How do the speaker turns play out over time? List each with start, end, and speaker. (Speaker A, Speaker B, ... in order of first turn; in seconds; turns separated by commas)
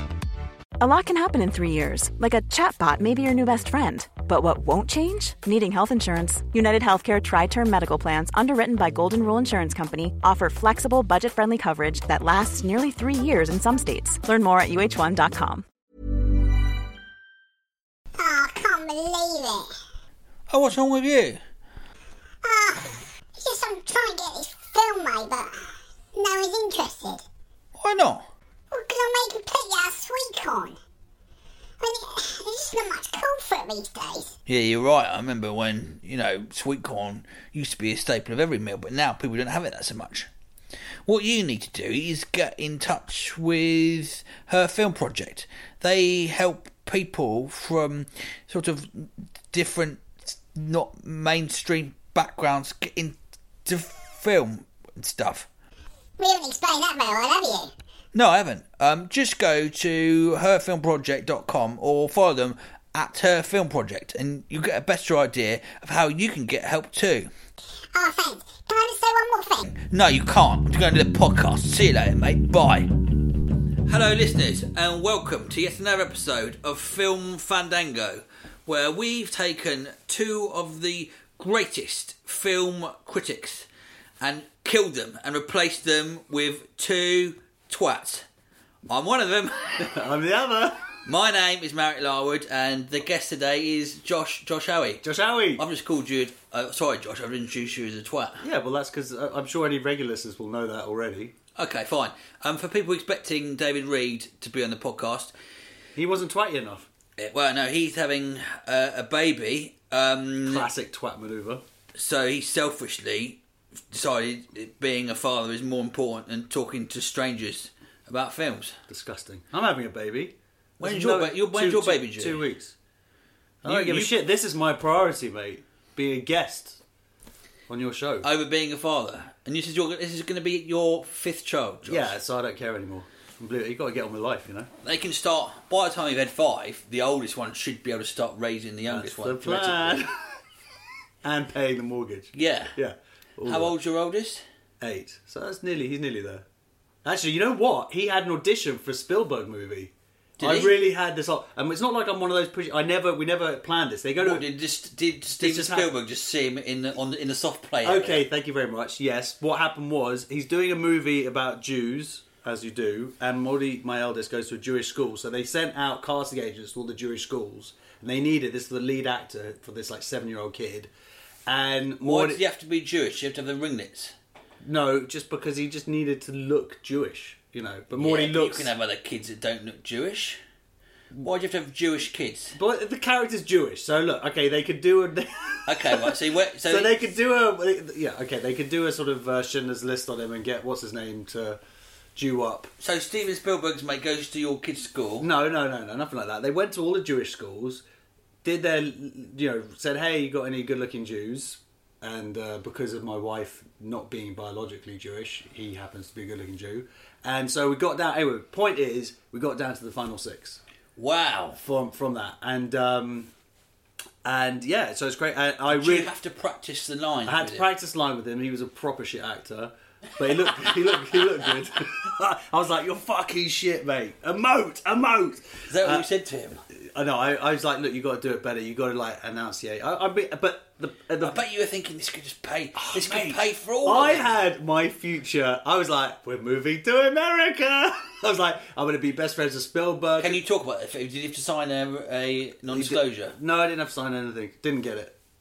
Speaker A: 0.8-15.6, Speaker B: 18.2-19.7, Speaker C: 20.5-21.4, Speaker B: 22.4-27.2, Speaker C: 27.8-28.3, Speaker B: 28.7-30.8, Speaker B: 31.8-34.4, Speaker C: 34.5-40.3, Speaker C: 41.0-55.5, Speaker B: 56.2-57.7, Speaker C: 58.1-67.3, Speaker B: 67.9-69.7, Speaker C: 69.7-83.7, Speaker C: 84.2-88.2, Speaker C: 88.9-89.9, Speaker D: 89.8-90.9, Speaker C: 91.0-98.4, Speaker D: 95.0-95.6, Speaker D: 98.4-101.3, Speaker C: 101.5-105.3, Speaker D: 106.0-106.9, Speaker C: 107.2-110.7, Speaker D: 110.4-111.6, Speaker C: 111.9-118.8, Speaker D: 118.9-122.7, Speaker C: 120.8-122.5, Speaker D: 123.6-126.8, Speaker C: 123.6-124.2, Speaker D: 127.7-128.3, Speaker C: 128.2-132.1, Speaker D: 131.8-134.7, Speaker C: 134.8-140.1, Speaker D: 138.8-140.1, Speaker D: 141.2-143.7, Speaker C: 142.3-142.8, Speaker C: 143.4-144.4, Speaker D: 144.8-146.4, Speaker D: 147.0-154.4, Speaker C: 150.4-150.8, Speaker C: 154.2-158.2, Speaker D: 155.4-155.9, Speaker D: 157.8-170.9, Speaker D: 171.4-172.4, Speaker C: 172.0-174.2, Speaker D: 174.6-178.7, Speaker C: 177.9-180.4, Speaker C: 181.2-182.6, Speaker D: 182.5-191.6, Speaker C: 185.7-187.0, Speaker D: 192.2-192.7, Speaker C: 192.8-195.3, Speaker D: 195.2-197.8, Speaker D: 198.4-210.6, Speaker C: 210.9-211.6, Speaker D: 211.6-213.3, Speaker D: 214.2-216.1, Speaker C: 215.7-217.7, Speaker D: 217.2-226.1, Speaker C: 225.7-226.6, Speaker D: 226.7-231.4, Speaker C: 231.2-234.4, Speaker D: 232.7-240.4, Speaker C: 240.2-243.3, Speaker D: 242.7-245.2